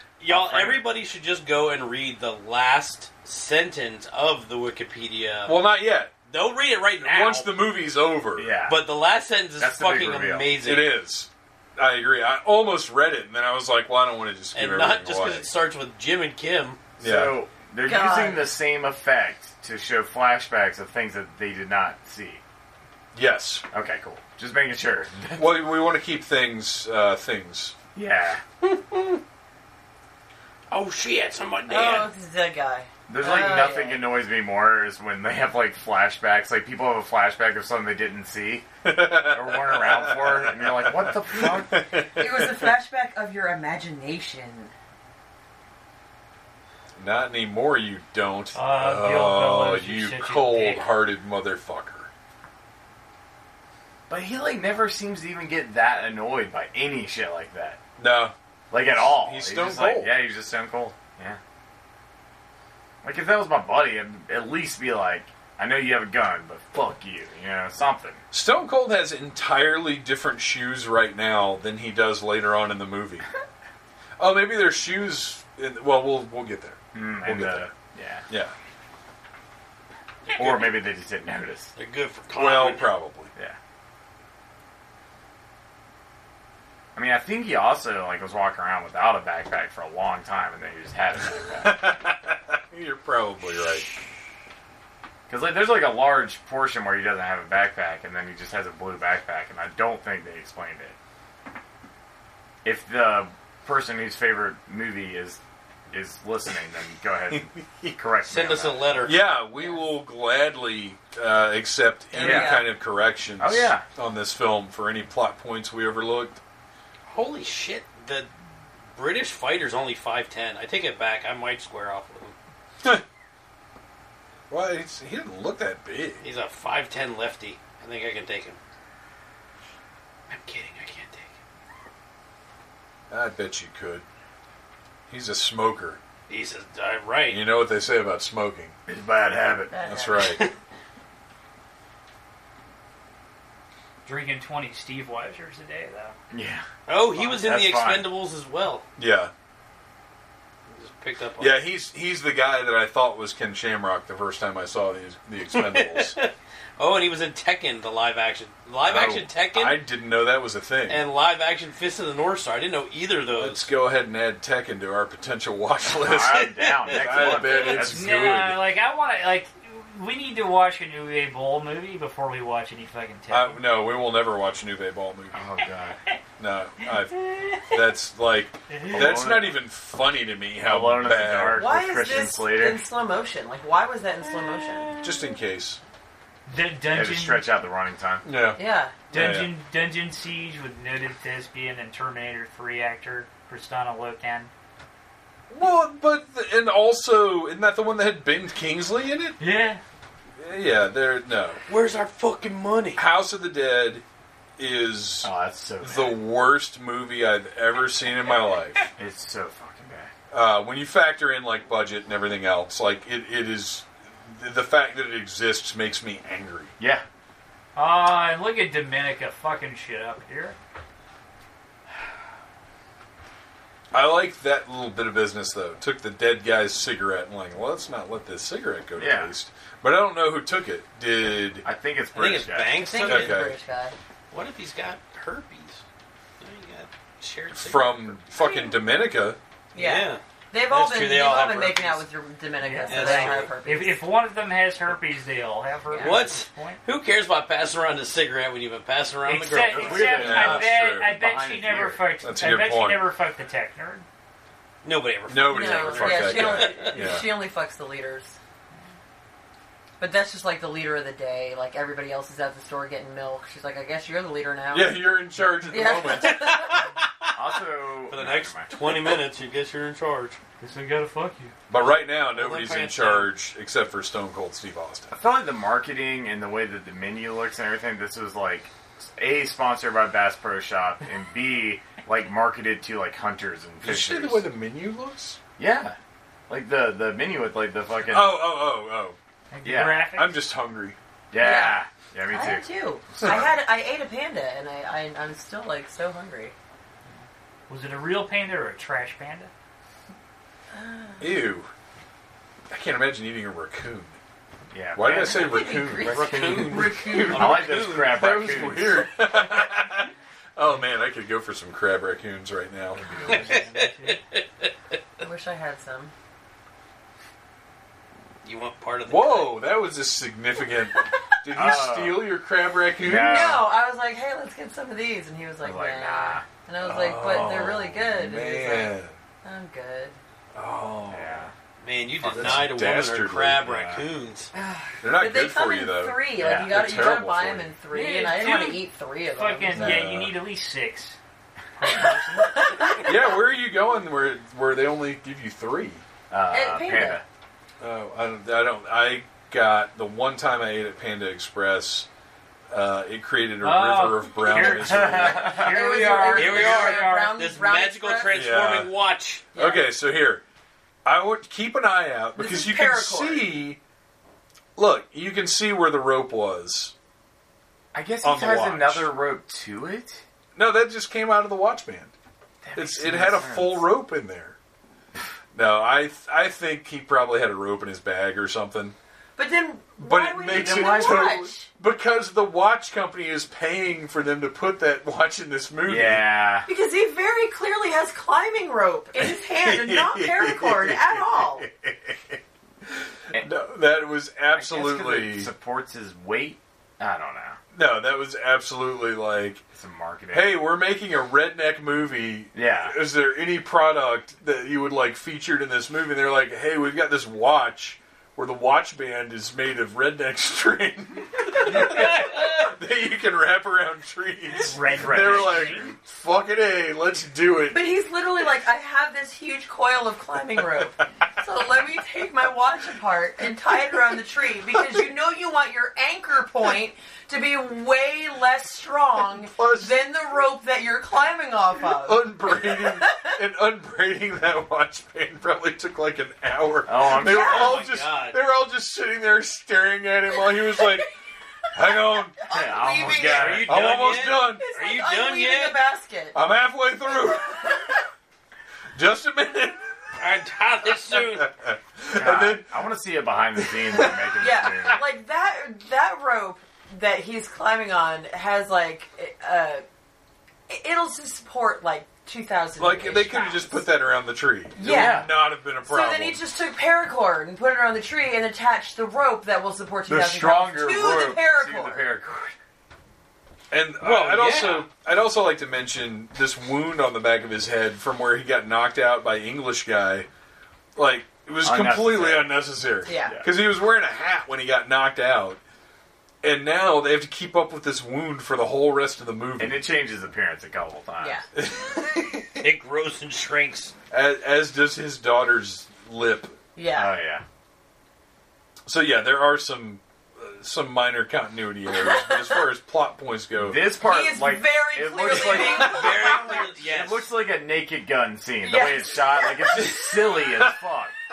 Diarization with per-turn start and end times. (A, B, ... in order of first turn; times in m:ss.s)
0:00.2-0:05.6 A
0:00.3-0:00.8 B
0:05.5-0:06.1 C
0:06.3-0:07.6 A
0:07.0-0:08.6 C
0:08.4-0:08.8 B
0:08.6-0:10.9 A
0:09.6-0:10.5 B
0:10.6-0:15.5 C
0:14.5-0:16.8 A
0:17.0-0:22.4 B
0:17.0-0:17.4 C
0:17.8-0:18.5 D
0:23.2-0:23.6 C
0:23.7-0:25.6 B
0:25.4-0:27.7 C
0:28.0-0:28.4 B
0:28.6-0:29.2 A
0:30.7-0:32.1 A
0:31.7-0:34.0 D
0:33.1-0:38.7 B
0:38.8-0:42.7 C
0:39.3-0:41.8 B
0:42.2-0:44.7 D
0:47.0-0:52.1 C
0:48.5-0:50.9 E
0:54.1-0:57.8 B
0:58.0-0:58.3 C
0:58.7-1:01.4 B
0:58.9-1:00.2 C
1:03.0-1:08.2 B
1:08.3-1:13.2 C
1:14.2-1:17.7 C
1:16.9-1:18.3 B
1:20.3-1:20.8 A
1:20.4-1:21.7 B
1:21.8-1:22.9 A
1:22.3-1:23.3 C
1:27.0-1:31.9 B
1:31.6-1:33.9 C
1:35.3-1:41.0 B
1:42.6-1:49.1 B
1:47.3-1:48.0 C
1:48.3-1:49.2 A
1:49.0-1:56.4 C
1:49.6-1:49.8 D
1:52.1-1:52.7 D
1:52.2-1:52.6 B
1:53.4-1:53.8 B
1:57.1-1:58.3 A
1:59.0-2:02.4 A
2:04.5-2:06.2 C
2:06.2-2:08.6 A
2:10.3-2:11.3 A
2:13.1-2:14.0 C
2:15.1-2:16.0 C
2:16.3-2:17.4 A
2:17.3-2:18.8 C
2:18.9-2:19.7 B
2:19.7-2:20.5 D
2:19.8-2:20.4 C
2:20.2-2:20.5 A
2:24.0-2:26.2 E
2:26.3-2:28.1 B
2:26.9-2:28.8 A
2:29.0-2:29.3 C
2:30.7-2:31.6 A
2:31.4-2:36.2 C
2:35.5-2:39.8 A
2:38.8-2:41.0 C
2:40.9-2:43.7 A
2:43.3-2:48.6 C
2:45.9-2:48.4 B
2:46.3-2:47.6 A
2:47.6-2:53.6 E
2:53.3-2:55.4 C
2:55.3-2:56.0 B
2:56.4-3:01.7 C
2:56.8-2:57.8 E
2:58.7-2:59.2 E
2:58.9-2:59.6 B
3:00.6-3:02.8 B
3:01.6-3:05.0 D
3:05.0-3:05.8 C
3:06.5-3:07.4 E
3:06.9-3:08.2 B
3:08.2-3:08.6 C
3:08.6-3:09.0 D
3:09.1-3:09.5 C
3:09.1-3:14.5 E
3:15.5-3:19.4 C
3:19.4-3:19.8 E
3:20.4-3:21.6 C
3:21.7-3:23.0 A
3:23.0-3:24.0 C
3:24.6-3:25.3 C
3:25.2-3:26.2 B
3:25.8-3:28.9 C
3:29.0-3:30.1 B
3:30.3-3:36.7 C
3:36.8-3:37.0 B
3:37.8-3:40.6 E
3:43.9-3:51.7 C
3:49.0-3:49.3 B
3:51.6-3:52.9 B
3:52.2-3:53.5 A
3:52.8-3:54.0 D
3:53.0-3:53.6 C
3:54.3-3:55.8 A
3:56.4-3:58.2 A
3:57.5-3:59.4 C
3:58.4-3:58.7 D
3:59.7-4:04.0 D
3:59.8-4:02.0 A
4:02.6-4:06.8 E
4:02.9-4:03.5 A
4:05.9-4:06.2 D
4:06.0-4:10.5 A
4:09.2-4:14.0 E
4:09.6-4:12.0 B
4:10.1-4:11.1 C
4:12.2-4:13.1 C
4:14.8-4:17.0 A
4:15.3-4:17.3 C
4:15.4-4:18.4 D
4:20.0-4:25.2 D
4:24.7-4:26.6 C
4:25.7-4:26.9 D
4:26.3-4:27.3 A
4:27.4-4:28.7 B
4:28.1-4:30.4 A
4:30.6-4:31.5 E
4:31.7-4:35.2 C
4:31.8-4:33.3 A
4:35.1-4:44.4 B
4:43.8-4:45.4 C
4:45.6-4:48.4 B
4:48.1-4:49.2 C
4:49.5-4:50.4 E
4:49.6-4:50.0 B
4:50.1-4:51.0 C
4:51.3-4:53.6 B
4:51.4-4:56.6 D
4:57.7-4:59.5 E
5:00.7-5:01.4 D
5:01.2-5:01.7 C
5:02.7-5:04.2 C
5:04.7-5:09.1 B
5:05.0-5:13.1 C
5:05.2-5:07.6 D
5:05.9-5:08.2 A
5:12.9-5:13.6 B
5:13.1-5:14.2 E
5:13.3-5:14.7 A
5:15.2-5:16.1 D
5:18.4-5:19.6 A
5:19.1-5:23.6 C
5:21.5-5:22.3 B
5:23.0-5:23.6 B
5:23.2-5:30.2 D
5:25.6-5:26.5 B
5:26.8-5:29.2 C
5:30.6-5:31.5 C
5:31.1-5:31.5 B
5:31.8-5:34.5 A
5:32.2-5:32.7 B
5:32.2-5:33.8 C
5:33.7-5:34.0 B
5:34.5-5:40.0 D
5:35.0-5:37.7 C
5:36.4-5:36.8 B
5:37.9-5:38.8 E
5:39.4-5:41.2 E
5:39.7-5:40.3 C
5:41.8-5:42.9 E
5:42.6-5:43.1 D
5:43.0-5:46.0 C
5:46.3-5:47.2 B
5:46.5-5:47.2 D
5:47.8-5:52.1 C
5:52.7-5:55.6 C
5:53.6-5:57.1 E
5:54.6-5:56.2 B
5:55.3-5:58.4 D
5:56.3-5:59.5 A
5:58.3-5:58.9 C
5:59.6-5:59.9 D
5:59.6-6:00.4 C
6:01.0-6:03.8 C
6:02.4-6:03.6 D
6:04.8-6:06.9 C
6:07.9-6:10.2 B
6:08.2-6:09.1 C
6:10.6-6:12.1 C
6:12.6-6:13.8 B
6:12.8-6:14.6 C
6:15.5-6:19.0 C
6:19.4-6:21.7 D
6:20.0-6:26.3 C
6:20.5-6:21.3 B
6:25.8-6:26.7 B
6:26.7-6:31.7 D
6:29.2-6:35.5 C
6:34.5-6:37.6 B
6:37.7-6:39.6 C
6:39.7-6:40.6 B
6:40.3-6:57.9 C
6:42.5-6:43.0 B
6:51.8-6:52.4 A
6:54.5-6:55.9 E
6:54.8-6:56.0 B
6:57.7-7:13.3 D
7:09.3-7:10.1 C
7:11.9-7:21.1 C
7:16.9-7:17.8 B
7:17.2-7:17.8 D
7:17.3-7:18.4 A
7:20.3-7:21.0 D
7:21.8-7:22.5 C
7:21.9-7:26.4 D
7:22.5-7:23.8 B
7:23.3-7:25.8 A
7:23.6-7:24.7 C
7:26.3-7:27.9 C
7:29.0-7:29.9 C
7:30.2-7:31.5 A
7:31.2-7:32.7 C
7:32.2-7:35.0 B
7:34.4-7:39.8 D
7:40.7-7:43.8 D
7:42.8-7:46.4 C
7:44.8-7:52.0 D
7:44.8-7:45.3 B
7:50.1-7:52.5 B
7:53.7-8:00.3 C
7:54.0-7:54.9 A
8:01.0-8:05.6 C
8:01.6-8:02.6 B
8:03.1-8:03.4 D
8:03.2-8:03.5 B
8:06.4-8:09.8 C
8:09.6-8:11.4 B
8:11.2-8:11.5 D
8:11.6-8:12.6 C
8:12.6-8:13.9 A
8:14.1-8:16.6 C
8:16.8-8:17.1 D
8:16.9-8:17.4 B
8:18.9-8:23.9 C
8:22.0-8:22.6 D
8:23.6-8:31.1 B
8:24.0-8:26.8 D
8:25.3-8:27.3 A
8:25.3-8:26.1 C
8:28.6-8:29.8 D